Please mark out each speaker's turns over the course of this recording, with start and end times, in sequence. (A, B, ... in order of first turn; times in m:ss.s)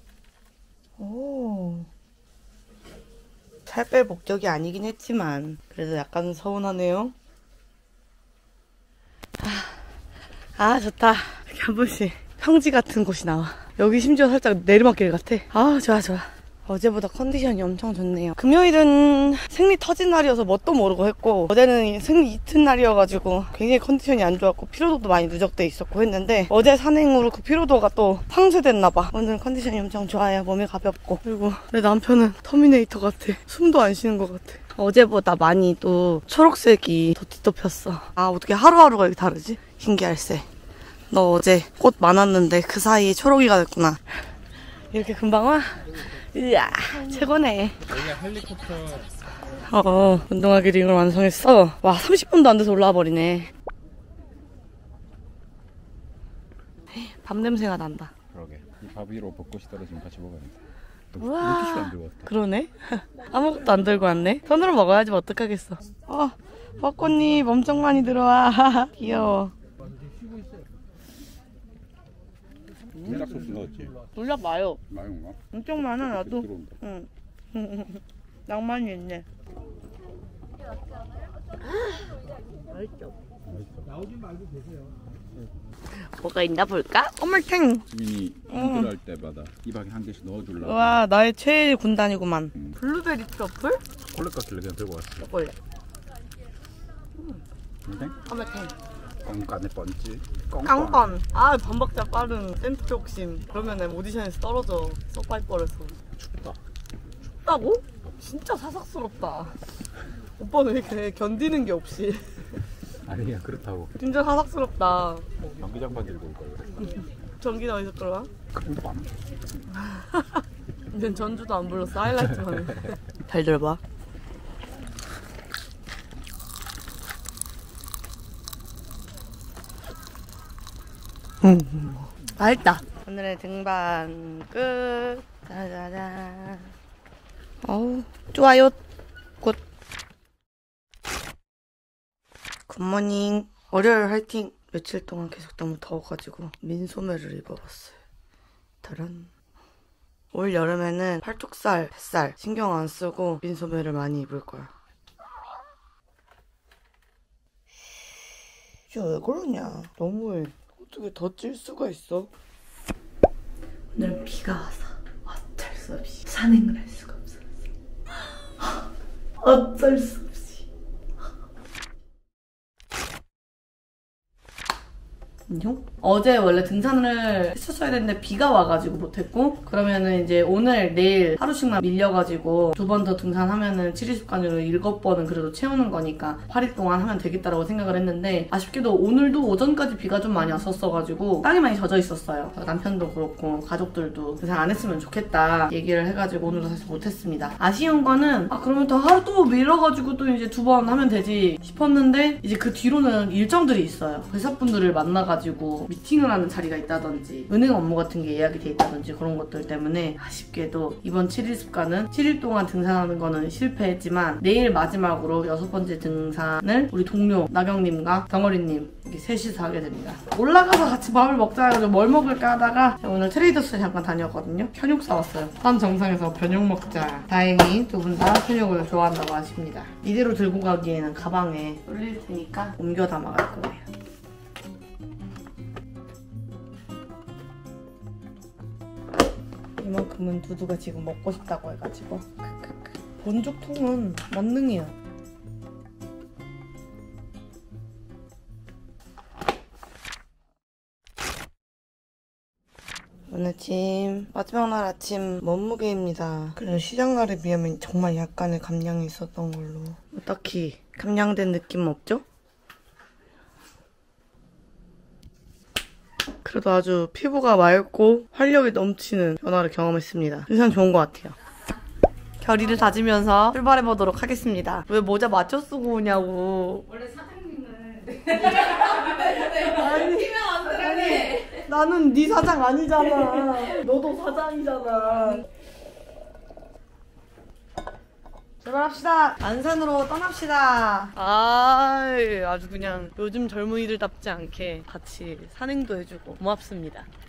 0:01.0-0:01.9 A
0:03.7-0:07.1 A
0:09.4-0:09.8 A
0:10.6-0:40.5 A
0:41.1-0:44.1 A
0:44.9-0:47.8 A
0:47.8-0:49.1 B
0:49.7-0:53.5 A
0:56.9-0:58.1 A
0:58.3-1:00.6 B
1:01.1-1:02.3 B
1:01.2-1:09.5 A
1:12.9-1:14.0 B
1:14.1-1:14.8 A
1:14.9-1:15.4 B
1:15.5-1:19.2 A
1:16.0-1:16.8 B
1:21.7-1:22.0 A
1:22.7-1:23.1 A
1:23.4-1:24.0 B
1:25.9-1:27.8 A
1:27.9-1:31.0 B
1:28.5-1:28.9 A
1:30.6-1:33.8 A
1:32.5-1:32.8 B
1:34.1-1:35.3 B
1:35.2-1:35.6 A
1:37.1-1:37.4 A
1:37.8-1:38.2 B
1:38.2-1:38.7 A
1:39.2-1:41.1 B
1:40.6-1:46.0 A
1:46.2-1:46.6 B
1:47.4-1:49.6 A
1:50.4-1:52.4 A
1:53.0-1:54.0 B
1:54.0-1:55.3 A
1:55.4-1:57.0 B
1:57.4-1:58.3 A
1:58.5-1:59.6 B
1:59.8-2:03.8 A
2:11.4-2:16.7 A
2:17.6-2:18.8 A
2:22.7-2:28.0 A
2:28.8-2:29.3 A
2:30.3-2:34.7 A
2:38.9-2:42.3 A
2:43.9-2:47.4 A
2:49.4-2:50.6 A
2:55.5-3:53.8 A
3:59.8-4:04.9 A
4:13.3-4:22.2 A
4:26.4-4:31.4 A
4:32.4-4:36.9 A
4:36.9-4:41.5 C
4:39.6-4:45.4 A
4:48.6-4:57.1 A